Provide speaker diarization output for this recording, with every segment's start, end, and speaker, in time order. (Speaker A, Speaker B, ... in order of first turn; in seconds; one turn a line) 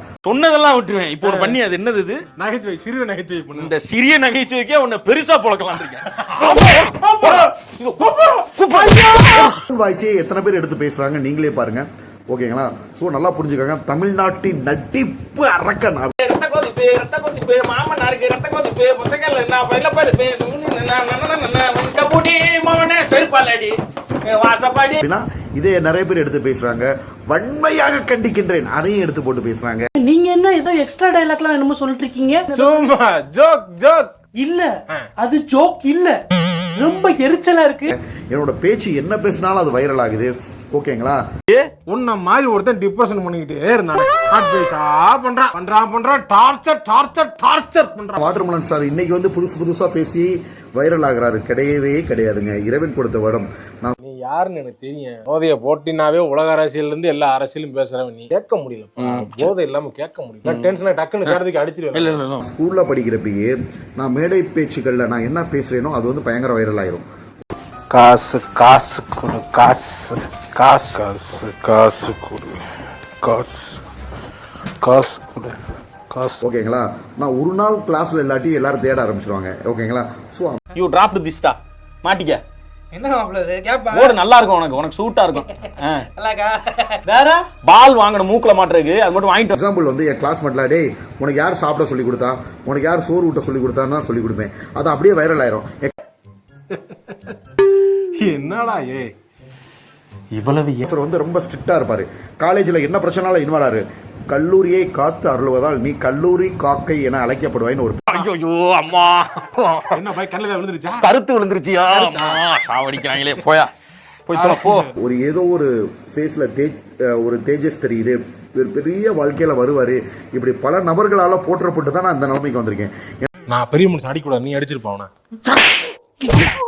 Speaker A: 0.2-2.2
Speaker B: 1.2-1.6
Speaker B: 2.4-3.7
Speaker A: 3.5-9.6
Speaker B: 6.2-7.5
Speaker C: 9.5-16.1
Speaker A: 16.2-25.0
Speaker C: 25.0-29.9
Speaker D: 29.9-32.7
Speaker B: 32.5-34.2
Speaker D: 34.4-36.2
Speaker D: 36.7-37.9
Speaker C: 37.9-41.2
Speaker B: 41.9-48.3
Speaker C: 48.2-54.0
Speaker B: 54.0-62.2
Speaker A: 59.0-59.5
Speaker A: 60.5-60.7
Speaker A: 61.9-62.4
Speaker C: 62.4-67.0
Speaker E: 67.9-73.8
Speaker E: 74.8-75.6
Speaker E: 76.1-76.4
Speaker C: 76.4-80.6
Speaker A: 80.7-82.4
Speaker D: 82.9-84.2
Speaker A: 83.9-86.1
Speaker D: 85.6-87.5
Speaker A: 87.6-89.5
Speaker C: 89.5-96.0
Speaker B: 96.7-99.1
Speaker B: 100.3-100.8
Speaker C: 100.8-108.2
Speaker A: 108.1-110.0
Speaker B: 109.9-111.1
Speaker A: 111.0-113.7
Speaker B: 111.9-112.4
Speaker A: 114.3-114.9
Speaker B: 114.3-114.9
Speaker C: 115.0-123.3
Speaker B: 123.5-125.1